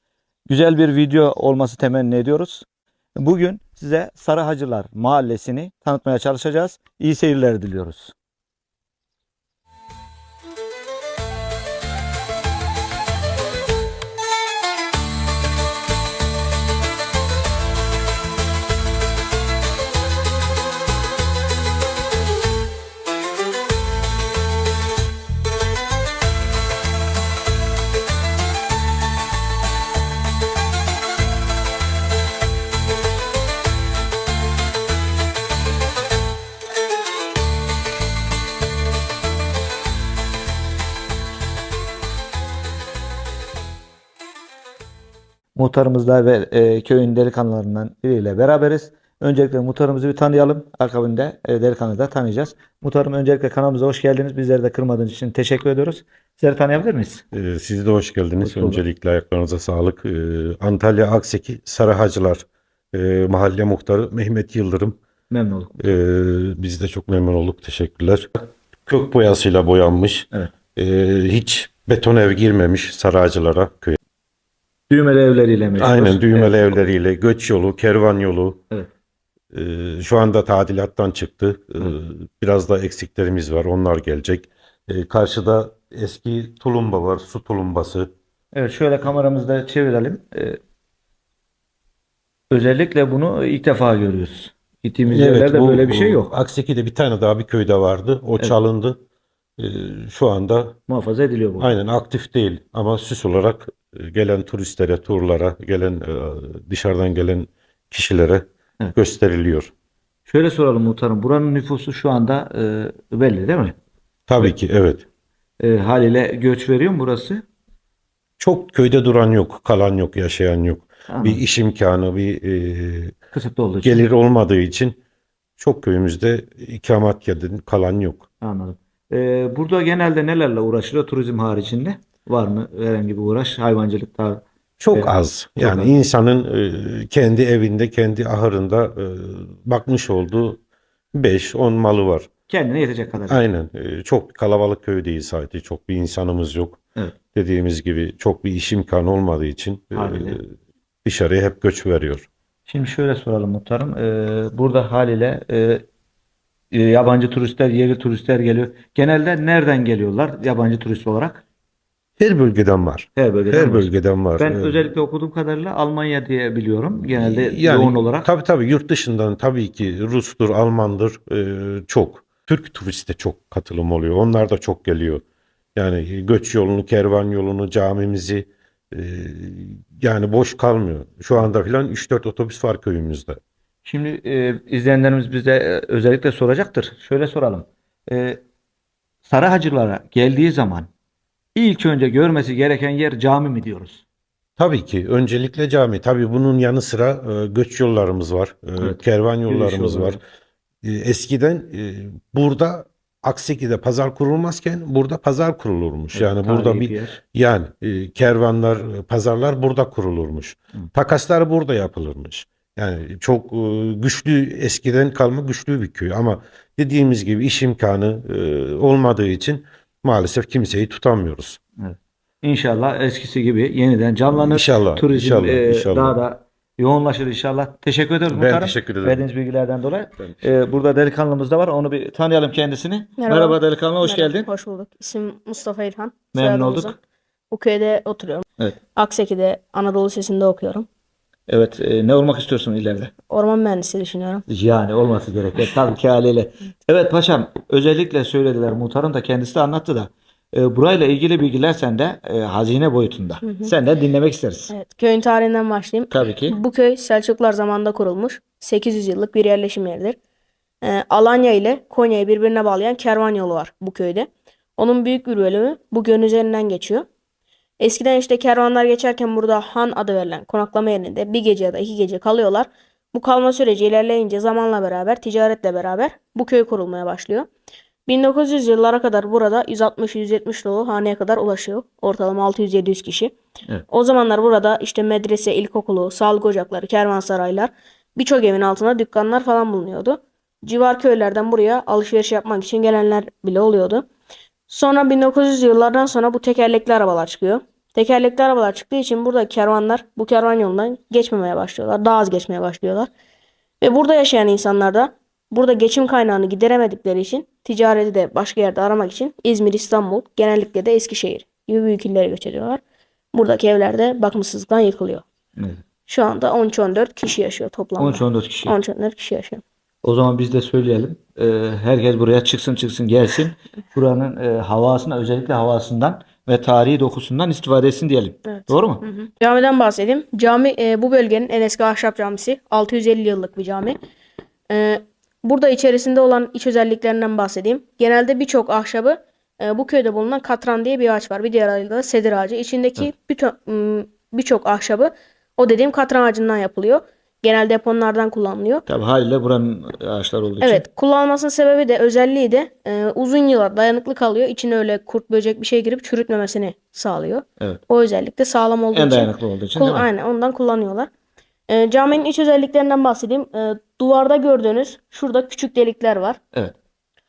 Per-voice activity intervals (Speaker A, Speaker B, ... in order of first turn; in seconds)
Speaker A: 0.5-8.1, 45.5-57.2, 58.4-58.8, 65.3-65.9, 74.9-76.7, 88.5-90.6, 92.5-96.3, 100.9-101.7, 110.3-113.7, 115.6-117.4, 121.1-121.4, 123.3-124.0, 128.4-135.9, 142.5-143.4, 149.9-150.4, 152.7-155.8, 156.7-161.4, 163.2-168.3, 183.8-188.4, 189.2-190.9, 191.5-194.0, 198.8-200.2, 206.1-207.2, 221.8-234.5, 236.3-236.9, 241.5-243.1, 244.5-254.7, 256.1-256.6, 315.6-315.8, 318.0-318.7, 320.0-329.0, 348.9-350.8, 358.9-360.1
Speaker B: 57.3-65.0, 65.8-74.0, 75.8-78.6, 79.5-88.1, 95.1-99.0, 99.6-100.8, 101.6-109.7, 114.3-115.0, 118.4-123.2, 123.8-125.0, 125.6-128.2, 134.8-140.6, 141.1-142.3, 143.3-146.8, 147.3-150.5, 151.0-152.2, 162.2-164.9, 167.2-175.2, 175.8-183.4, 194.6-200.2, 200.8-221.6, 224.3-226.2, 228.3-229.2
Speaker C: 233.2-237.0, 237.5-238.4, 238.9-240.9, 243.3-244.4, 253.4-253.7, 254.7-260.1, 260.8-267.1, 267.8-277.5, 278.1-283.3, 283.9-294.0, 294.7-303.1, 303.8-312.8, 313.3-315.2, 316.1-319.6, 328.5-333.9, 334.7-348.8, 350.6-361.1, 361.7-366.4